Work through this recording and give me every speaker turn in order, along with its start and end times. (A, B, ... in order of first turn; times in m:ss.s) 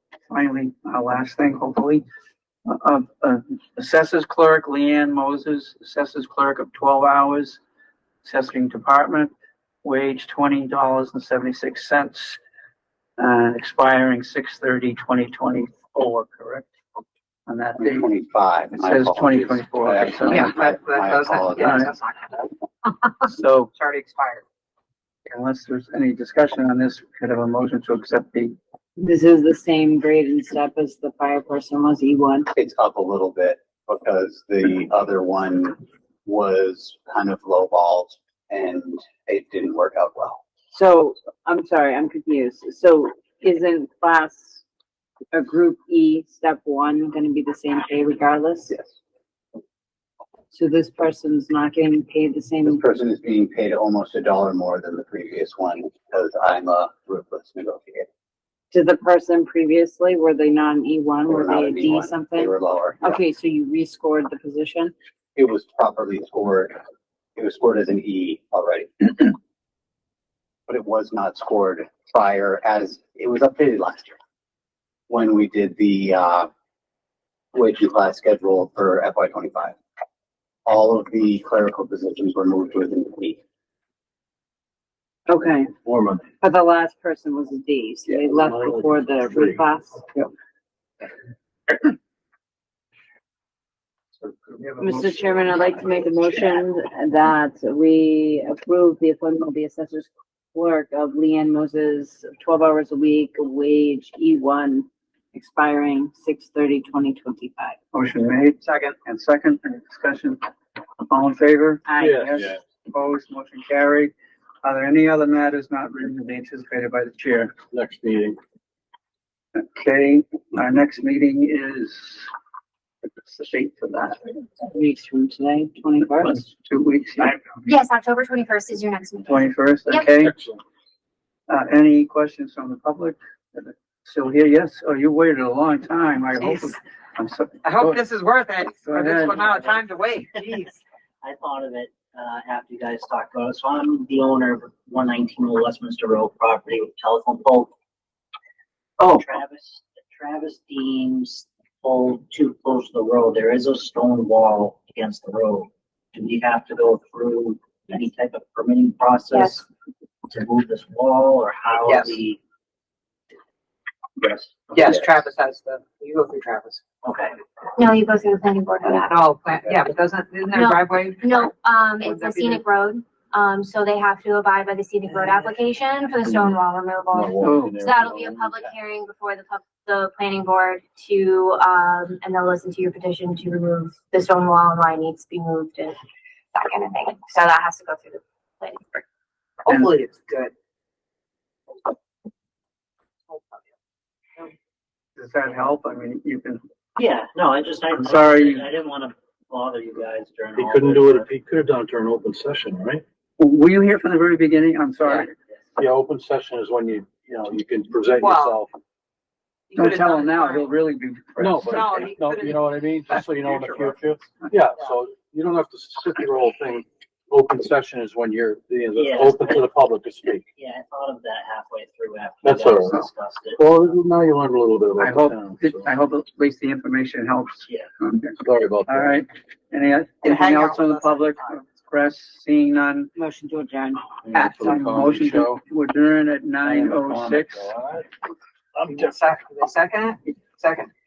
0:00.3-0:02.0 A
0:02.7-0:07.6 A
0:08.2-0:09.3 A
0:09.8-0:12.4 A
0:13.2-0:16.7 A
0:17.5-0:18.1 A
0:17.8-0:21.8 B
0:18.7-0:20.5 A
0:20.3-0:22.4 C
0:21.6-0:21.9 A
0:23.3-0:23.7 A
0:23.8-0:24.4 C
0:25.3-0:28.6 A
0:29.0-0:32.5 D
0:32.5-0:40.4 B
0:40.7-0:44.6 D
0:45.3-0:48.8 D
0:50.5-0:52.8 D
0:52.6-0:58.1 B
0:58.7-1:04.9 D
1:01.3-1:03.2 B
1:05.4-1:06.8 B
1:07.4-1:09.4 B
1:10.7-1:14.2 B
1:15.1-1:16.5 B
1:17.5-1:19.8 B
1:20.7-1:23.4 B
1:25.3-1:25.7 D
1:25.8-1:26.3 E
1:26.4-1:30.0 D
1:28.4-1:29.6 E
1:34.2-1:35.9 A
1:34.8-1:47.8 D
1:47.9-1:50.4 A
1:48.6-1:49.0 C
1:51.1-1:51.9 A
1:51.9-1:52.6 D
1:52.0-1:52.6 E
1:52.9-1:54.1 A
1:54.6-1:57.5 A
1:57.7-1:58.4 E
1:59.6-2:02.3 A
2:03.2-2:04.2 A
2:04.6-2:06.5 D
2:06.2-2:07.6 A
2:07.7-2:10.0 F
2:09.3-2:10.4 A
2:11.5-2:18.0 A
2:17.6-2:20.8 C
2:18.9-2:19.4 A
2:21.2-2:27.7 G
2:29.0-2:29.2 A
2:29.2-2:39.7 G
2:39.3-2:39.6 F
2:40.3-2:42.4 G
2:41.8-2:42.2 C
2:44.7-2:46.8 C
2:47.0-2:47.3 G
2:47.8-2:49.1 F
2:48.8-2:52.6 C
2:50.5-3:06.0 F
2:57.1-2:58.8 E
2:57.4-2:57.7 A
3:06.5-3:09.0 F
3:09.7-3:10.5 C
3:13.3-3:13.6 C
3:15.2-3:16.6 A
3:17.0-3:21.3 G
3:18.0-3:18.7 A
3:20.6-3:23.0 E
3:23.4-3:25.3 A
3:25.8-3:28.8 E
3:28.2-3:28.6 C
3:29.7-3:30.7 C
3:29.8-3:32.0 A
3:31.4-3:40.5 E
3:31.7-3:33.4 C
3:39.0-3:39.7 G
3:40.6-3:43.9 G
3:42.4-3:45.9 E
3:45.0-3:48.4 A
3:48.4-3:49.2 E
3:48.9-3:53.1 A
3:50.2-3:51.6 C
3:53.2-3:54.0 D
3:54.2-3:55.6 E
3:54.3-3:57.7 A
3:56.6-3:58.1 E
3:58.8-4:00.9 C